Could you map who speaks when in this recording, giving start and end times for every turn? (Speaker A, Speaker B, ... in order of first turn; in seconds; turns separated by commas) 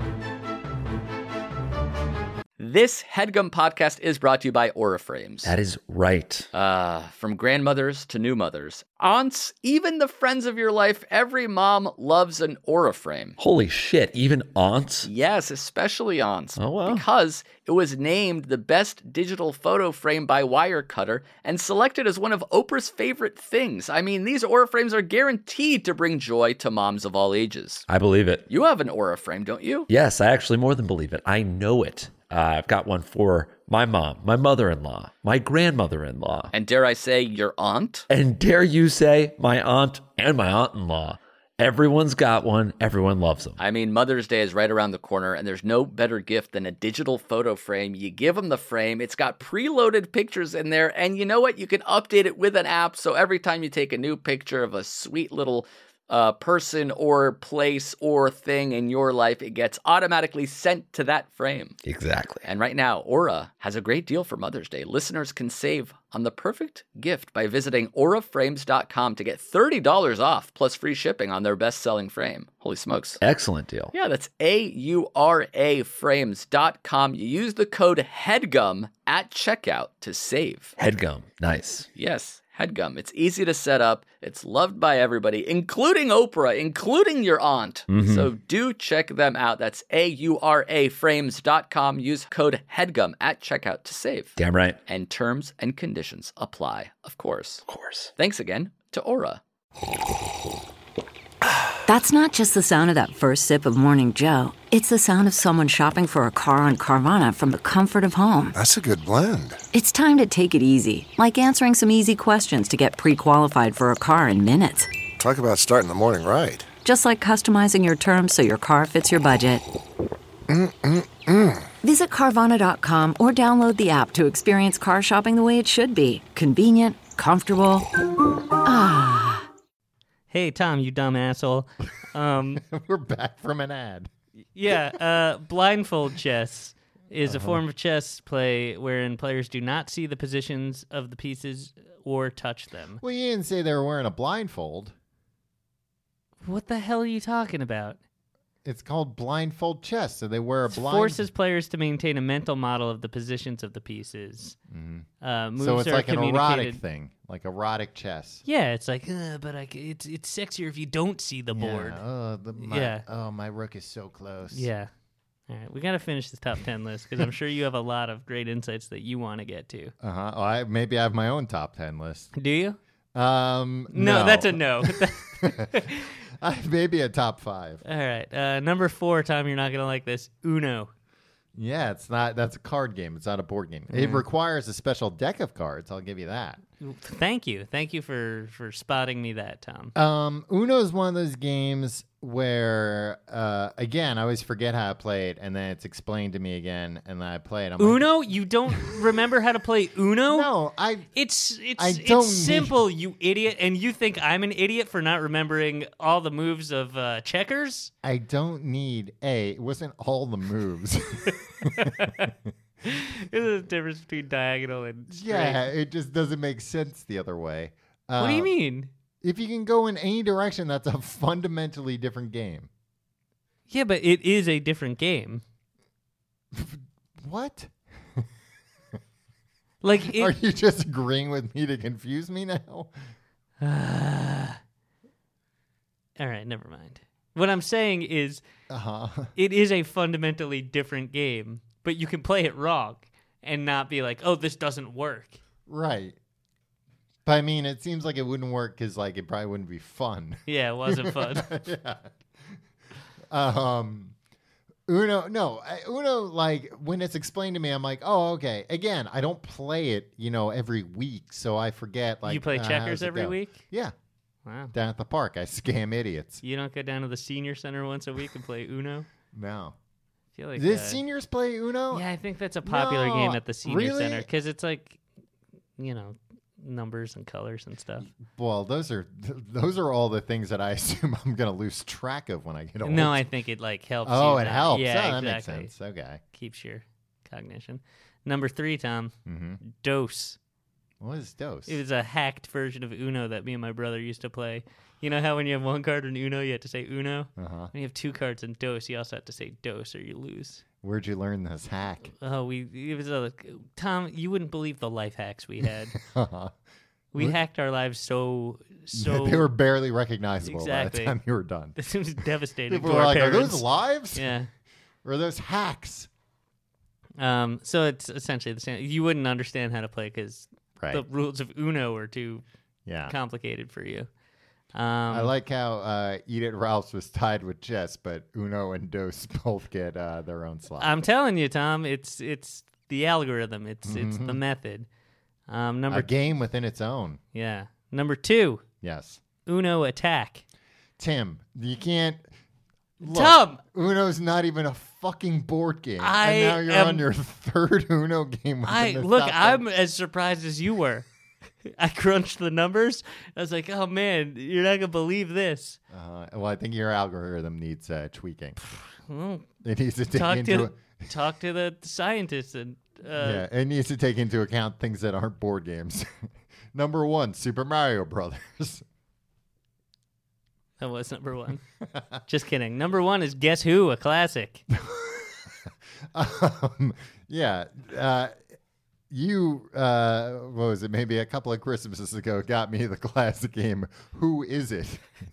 Speaker A: 2.6-5.5, Speaker B: 5.5-6.5, Speaker A: 6.5-13.4, Speaker B: 13.4-15.1, Speaker A: 15.0-27.9, Speaker B: 16.6-17.0, Speaker B: 27.9-28.5, Speaker A: 28.5-29.9, Speaker B: 29.9-36.5, Speaker A: 36.5-38.1, Speaker B: 38.1-43.6, Speaker A: 43.6-61.8, Speaker B: 61.8-62.5, Speaker A: 62.4-73.2, Speaker B: 73.2-73.9, Speaker A: 73.9-80.8, Speaker B: 80.8-81.9, Speaker A: 82.0-97.7, Speaker B: 87.9-88.3, Speaker B: 94.4-94.8, Speaker B: 97.7-98.1, Speaker A: 98.2-99.4, Speaker C: 101.9-108.6, Speaker D: 108.5-109.6, Speaker C: 109.7-114.9, Speaker D: 115.2-116.7, Speaker C: 116.8-119.6, Speaker D: 120.5-121.7, Speaker C: 121.8-127.9, Speaker C: 128.6-129.5, Speaker E: 130.3-132.6, Speaker F: 132.6-134.1, Speaker E: 134.6-143.0, Speaker F: 134.7-135.0, Speaker F: 137.2-137.6, Speaker F: 143.0-144.9, Speaker E: 146.4-148.0, Speaker F: 148.7-151.3, Speaker E: 150.7-154.6, Speaker F: 154.7-158.4, Speaker E: 155.2-156.8, Speaker E: 158.5-162.0, Speaker F: 161.5-164.7, Speaker E: 162.6-163.1, Speaker E: 164.5-164.9, Speaker E: 165.5-169.9, Speaker F: 170.0-172.3, Speaker E: 172.3-172.8, Speaker F: 173.1-177.8, Speaker E: 173.9-176.2, Speaker E: 177.8-180.9, Speaker F: 181.6-186.6, Speaker E: 183.9-184.2, Speaker E: 186.8-189.9, Speaker F: 189.9-198.1, Speaker E: 197.8-200.5, Speaker F: 200.3-201.1, Speaker E: 201.1-207.9, Speaker F: 201.8-202.8, Speaker F: 208.0-212.3, Speaker E: 211.7-212.3, Speaker E: 212.8-215.7, Speaker F: 215.1-218.5, Speaker E: 218.2-218.9, Speaker F: 219.2-222.7, Speaker E: 223.7-225.4, Speaker F: 226.5-228.3, Speaker E: 229.8-230.3, Speaker F: 230.0-232.9, Speaker E: 233.6-234.6, Speaker E: 236.2-238.4, Speaker F: 238.7-239.3, Speaker E: 239.4-245.4, Speaker F: 245.7-246.2, Speaker F: 247.2-252.6, Speaker E: 250.5-251.5, Speaker F: 253.3-254.2, Speaker F: 254.9-263.9, Speaker E: 262.3-263.6, Speaker E: 264.5-264.7, Speaker F: 264.7-266.4, Speaker E: 266.4-269.1, Speaker F: 269.3-269.8, Speaker E: 270.4-271.0, Speaker F: 270.6-272.1, Speaker E: 271.9-275.0, Speaker F: 272.6-274.3, Speaker E: 275.8-278.1, Speaker F: 278.0-283.3, Speaker E: 282.8-285.7, Speaker F: 284.0-286.2, Speaker E: 286.3-290.4, Speaker F: 289.3-289.6, Speaker F: 291.0-291.8, Speaker E: 291.7-300.6, Speaker F: 297.4-297.7, Speaker F: 300.8-302.1, Speaker E: 302.2-306.0, Speaker F: 305.9-306.5, Speaker E: 307.1-309.5, Speaker F: 308.9-311.8, Speaker E: 310.4-311.2, Speaker E: 311.8-314.5, Speaker F: 312.7-314.4, Speaker F: 315.0-316.1, Speaker E: 317.2-322.4, Speaker F: 320.8-321.1, Speaker F: 322.9-323.2, Speaker E: 323.1-324.1, Speaker E: 324.7-325.3, Speaker F: 325.1-330.9, Speaker E: 330.8-334.9, Speaker F: 333.9-334.4, Speaker E: 335.5-336.1, Speaker F: 335.9-337.2, Speaker E: 337.3-338.6, Speaker F: 338.8-339.2, Speaker E: 339.4-340.4, Speaker F: 341.0-342.3, Speaker F: 343.0-349.6, Speaker E: 343.0-343.6, Speaker E: 346.0-347.1, Speaker E: 348.6-351.1, Speaker E: 351.6-355.8, Speaker F: 355.9-358.8, Speaker E: 358.9-359.5, Speaker F: 359.6-361.1, Speaker E: 360.1-363.4, Speaker F: 363.2-368.9, Speaker E: 370.8-371.6, Speaker E: 372.3-374.6, Speaker F: 374.7-375.5, Speaker F: 376.1-378.4, Speaker F: 379.1-385.1